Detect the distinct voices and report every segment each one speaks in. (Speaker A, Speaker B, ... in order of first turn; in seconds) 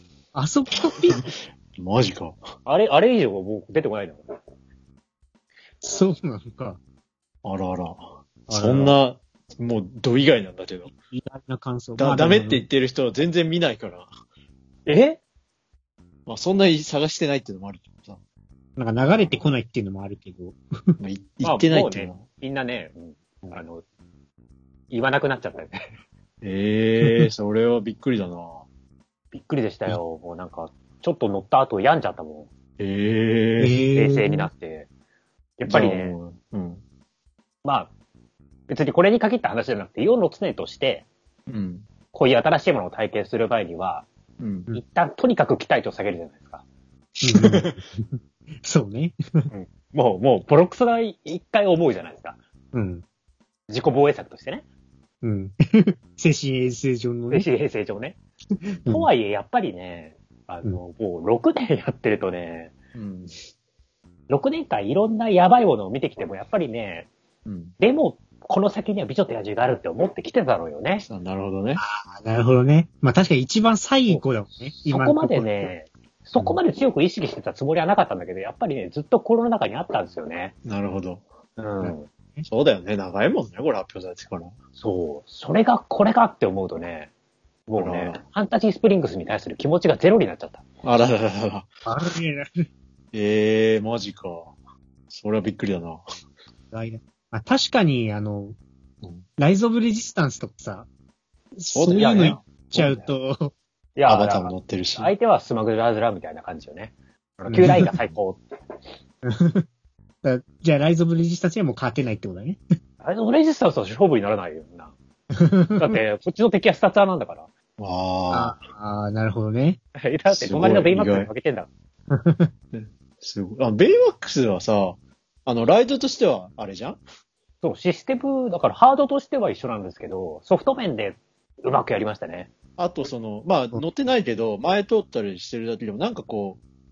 Speaker A: 0.3-1.3, 5.8-6.8, 8.5-9.0, 10.9-12.6, 18.8-20.6, 33.6-34.5, 47.2-49.5, 52.7-53.0, 55.2-57.5, 71.8-75.7, 81.8-82.5, 91.8-92.5, 96.7-98.5, 99.4-100.9, 101.5-103.5, 107.5-107.9, 109.2-109.6, 110.2-112.6, 115.3-116.0, 118.3-119.8, 122.1-122.5
Speaker B: 1.1-2.4, 7.4-10.9, 12.0-14.1, 16.2-18.2, 21.0-22.2, 26.4-28.6, 32.8-33.8, 35.7-36.8, 41.5-41.9, 44.4-44.7, 47.2-47.7, 62.9-63.3, 67.4-67.7, 71.0-71.8, 80.6-81.2, 82.5-84.5, 87.8-88.2, 90.8-91.7, 93.1-94.5, 95.1-96.0, 101.7-103.1, 104.1-105.1, 107.6-108.0, 117.8-118.6, 120.3-121.3, 122.7-127.0, 132.8-136.6
Speaker C: 2.6-4.3, 14.8-15.2, 21.4-23.8, 24.9-25.8, 29.3-32.5, 33.9-34.9, 35.6-36.1, 37.6-37.9, 38.7-41.0, 42.1-44.0, 44.7-46.6, 49.5-52.4, 53.7-54.6, 57.3-58.2, 58.9-62.7, 64.3-67.1, 67.8-71.0, 74.8-80.5, 81.6-82.1, 84.8-87.1, 87.7-90.6, 101.9-102.4, 104.0-108.4, 113.0-114.9, 115.8-117.5, 120.0-121.7, 127.6-132.5